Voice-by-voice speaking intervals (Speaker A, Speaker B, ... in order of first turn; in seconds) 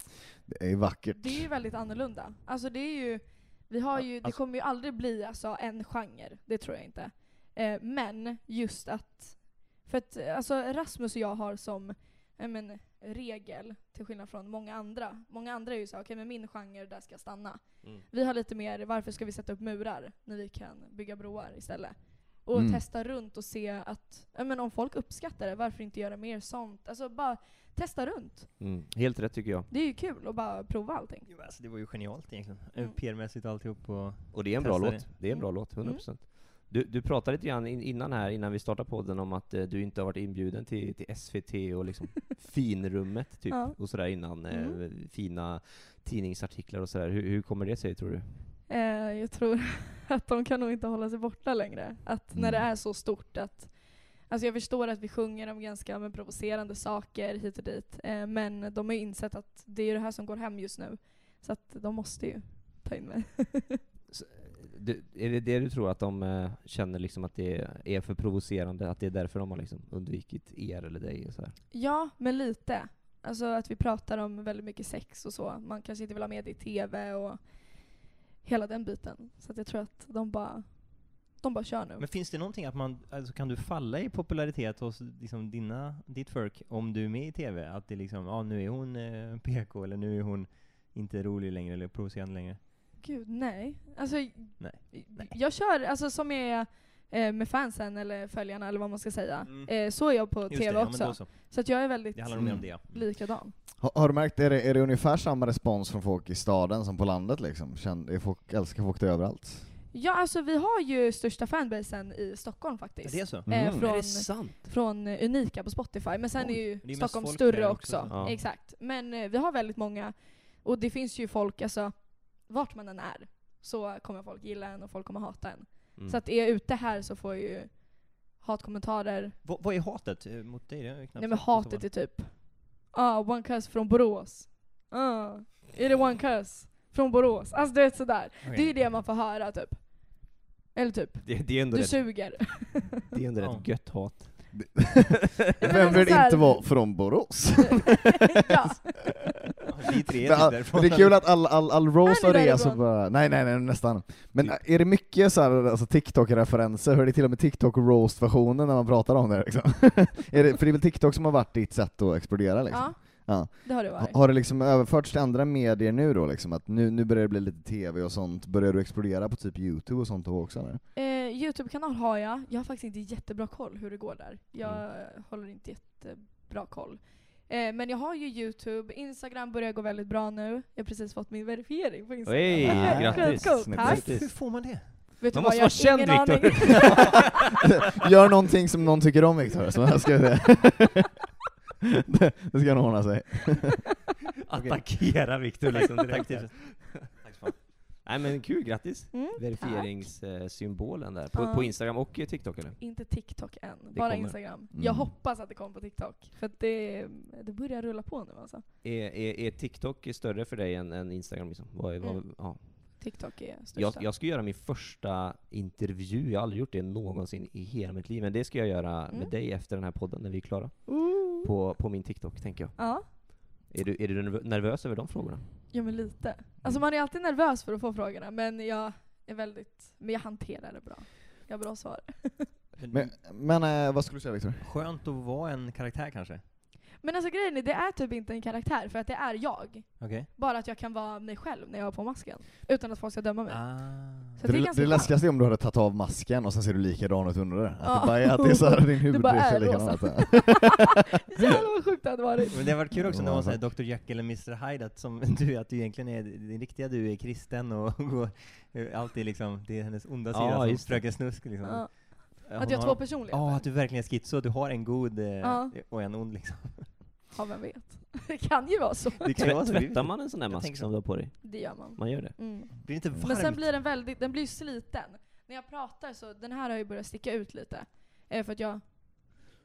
Speaker A: 0.5-1.5, 22.5-22.8, 52.3-52.7, 102.3-102.6, 103.8-109.6, 113.5-113.9, 144.6-148.7, 150.2-170.8, 182.6-184.1, 187.9-191.1, 191.8-193.8, 204.7-205.1, 232.9-234.6, 244.4-250.7, 252.9-253.6
Speaker B: 1.1-28.5, 29.7-31.3, 35.3-36.0, 43.5-43.8, 44.5-44.8, 48.7-63.8, 71.7-82.0, 93.0-103.5, 109.9-129.3, 131.2-143.0, 145.6-147.0, 147.6-149.0, 152.0-152.8, 162.7-164.2, 170.9-184.1, 185.2-186.9, 199.1-199.9, 201.3-201.7, 202.8-208.6, 212.0-214.1, 220.9-221.4, 222.8-223.1, 225.7-232.5, 237.0-245.1, 247.8-252.7, 261.6-263.7, 265.4-265.7, 267.3-269.3, 271.4-278.8
Speaker C: 28.6-29.7, 34.3-48.3, 64.1-71.6, 113.5-114.6, 118.1-118.4, 141.2-142.6, 143.1-144.5, 182.3-184.3, 185.3-187.2, 194.4-197.1, 198.0-202.8, 203.9-204.4, 208.8-213.2, 213.7-225.4, 260.3-261.2, 269.4-272.4
Speaker D: 31.3-35.0, 82.0-92.6, 94.6-95.2, 99.5-101.5, 102.1-102.9, 113.0-113.5, 116.4-118.2, 129.4-131.8, 138.4-138.8, 149.7-151.2, 184.0-185.0, 194.5-197.5, 232.8-233.1, 234.6-236.4, 240.0-240.3, 243.5-244.4, 252.5-266.9, 269.2-270.9, 272.8-273.7